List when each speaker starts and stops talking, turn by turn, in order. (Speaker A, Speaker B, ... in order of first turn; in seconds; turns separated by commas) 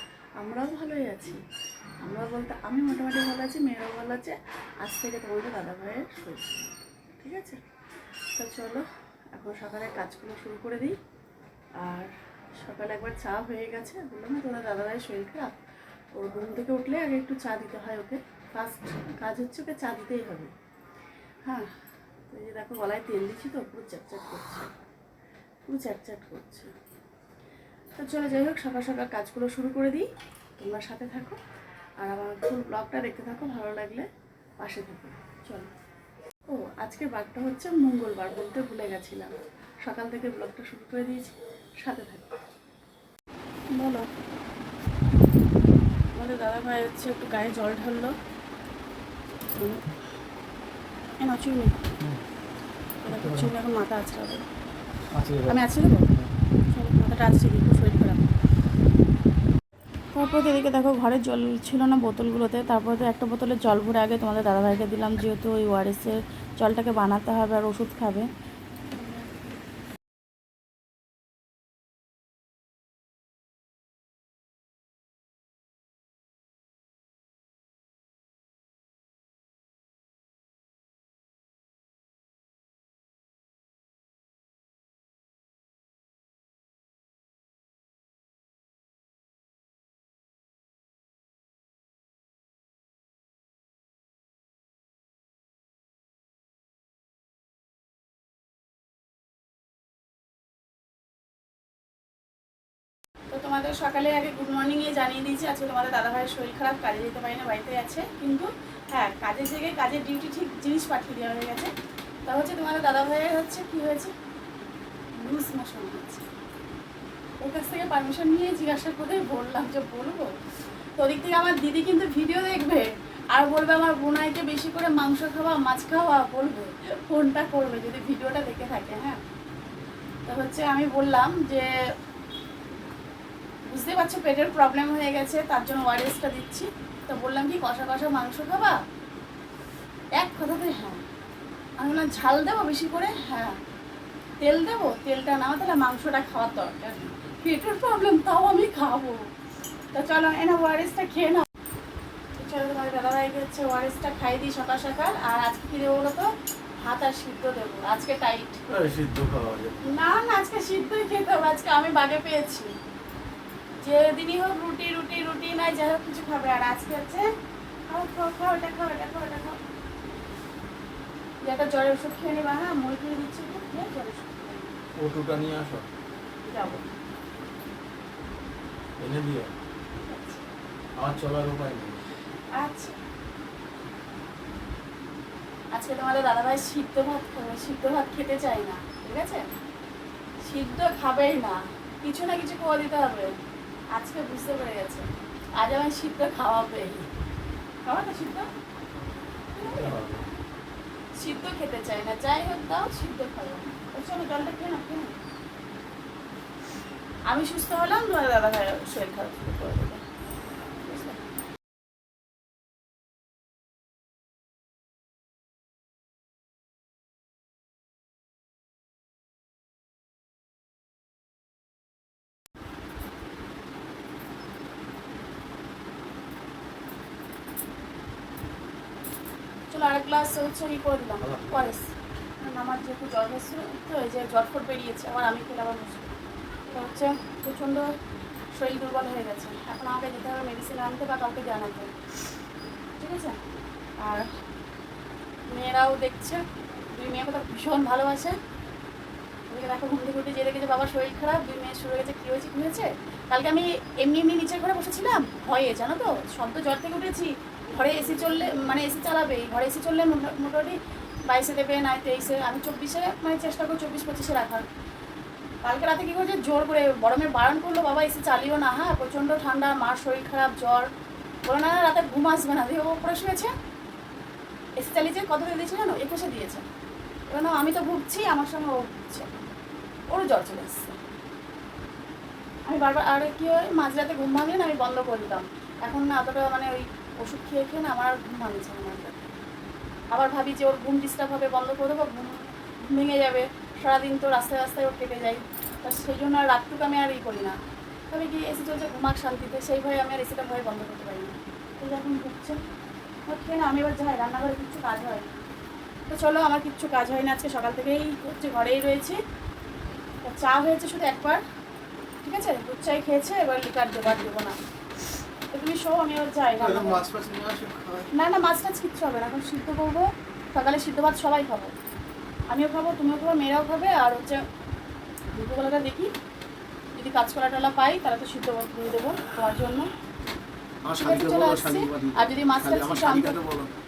Speaker A: 0.4-1.4, Speaker A: 2.0-7.6, Speaker A: 8.3-11.0, Speaker A: 11.8-15.6, Speaker A: 16.1-20.5, Speaker A: 21.4-21.7, Speaker A: 22.3-24.7, Speaker A: 25.6-26.7, Speaker A: 27.9-31.4, Speaker A: 32.0-34.1, Speaker A: 34.6-35.7, Speaker A: 36.5-42.3, Speaker A: 43.7-44.1, Speaker A: 46.1-48.1, Speaker A: 49.5-49.9, Speaker A: 51.2-51.9, Speaker A: 53.0-54.5, Speaker B: 55.1-55.6, Speaker A: 55.5-56.1, Speaker A: 56.7-58.3, Speaker A: 60.1-68.3, Speaker A: 103.3-111.7, Speaker A: 112.2-114.1, Speaker A: 115.2-116.3, Speaker A: 117.4-120.3, Speaker A: 121.0-129.2, Speaker A: 130.2-131.7, Speaker A: 133.7-138.8, Speaker A: 140.2-141.0, Speaker A: 141.8-143.6, Speaker A: 144.4-149.3, Speaker A: 149.9-151.5, Speaker A: 152.3-158.6, Speaker B: 158.7-159.8, Speaker A: 159.8-162.7, Speaker A: 163.8-167.3, Speaker A: 167.9-169.6, Speaker A: 171.4-174.7, Speaker B: 175.0-175.9, Speaker A: 176.4-176.9, Speaker B: 179.0-179.5, Speaker A: 180.1-180.4, Speaker B: 181.0-182.0, Speaker A: 182.5-183.0, Speaker A: 185.7-189.4, Speaker A: 190.4-193.3, Speaker A: 193.9-197.1, Speaker A: 197.8-198.5, Speaker A: 199.5-199.9, Speaker B: 199.7-200.3, Speaker A: 201.2-205.1, Speaker A: 207.3-210.0, Speaker A: 210.8-211.2, Speaker A: 229.7-236.1, Speaker B: 231.2-231.8, Speaker A: 236.7-237.9, Speaker A: 238.5-241.9, Speaker A: 243.0-243.4, Speaker A: 244.0-244.3, Speaker A: 245.5-248.4, Speaker A: 249.5-264.7, Speaker A: 265.6-270.9, Speaker A: 271.4-273.5, Speaker A: 274.8-276.6, Speaker A: 277.3-279.4, Speaker A: 280.1-281.0, Speaker A: 282.7-289.1, Speaker A: 290.1-297.6, Speaker A: 298.1-302.6, Speaker A: 303.3-305.3, Speaker A: 306.1-309.2, Speaker A: 310.2-311.4, Speaker A: 312.2-314.6, Speaker A: 315.5-317.0, Speaker B: 316.6-318.1, Speaker A: 318.1-321.7, Speaker A: 322.5-324.4, Speaker A: 325.3-326.1, Speaker A: 326.9-329.9, Speaker B: 330.8-333.7, Speaker A: 331.0-333.4